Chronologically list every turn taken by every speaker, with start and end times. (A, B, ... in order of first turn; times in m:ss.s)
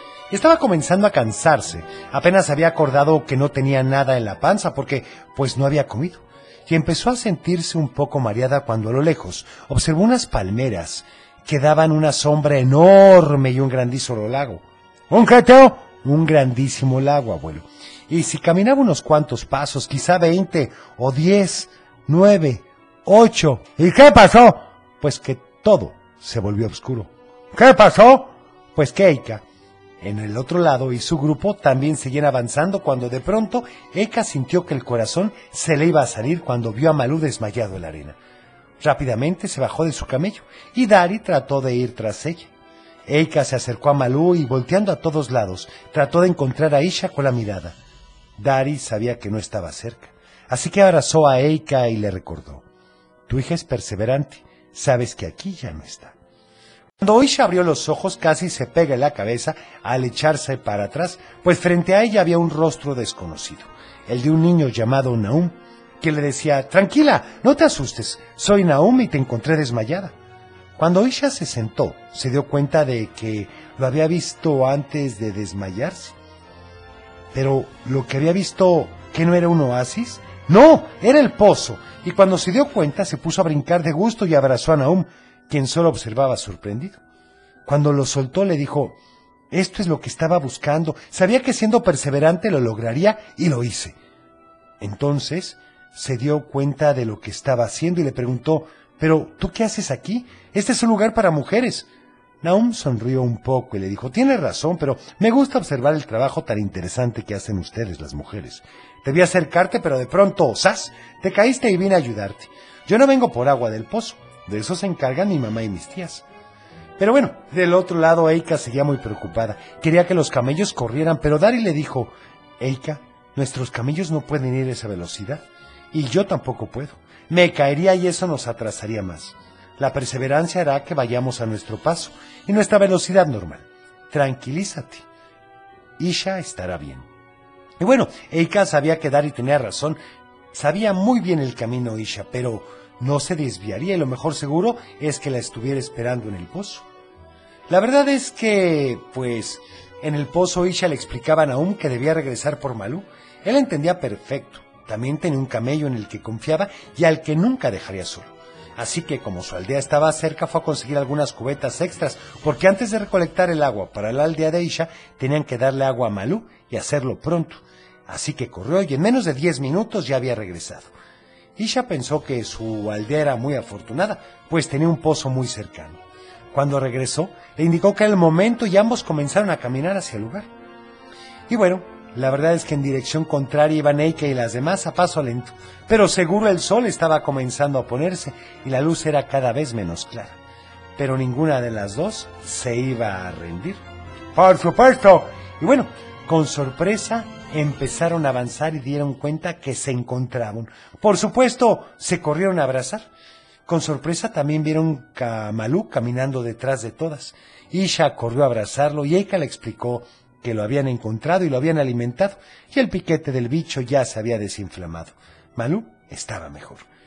0:00.3-0:29.4 A
0:30.0-0:38.2 A
0:38.8-0:42.5 A
0:43.1-0:47.7 A
0:48.4-0:52.6 A
0:53.3-0:56.1 A
0:57.0-1:10.1 A
1:10.8-1:16.1 A
1:17.3-1:27.0 A
1:27.6-1:29.0 A
1:29.5-1:34.0 A
1:34.8-1:41.9 A
1:42.4-1:56.2 A
1:57.0-2:15.0 A
2:16.0-2:17.0 A
2:17.8-2:20.0 A
2:20.5-2:26.8 A
2:27.7-2:50.9 A
2:51.6-2:56.0 A
2:56.5-3:00.5 A
3:01.5-3:10.4 A
3:11.0-3:13.8 A
3:14.3-3:23.1 A
3:23.6-3:36.8 A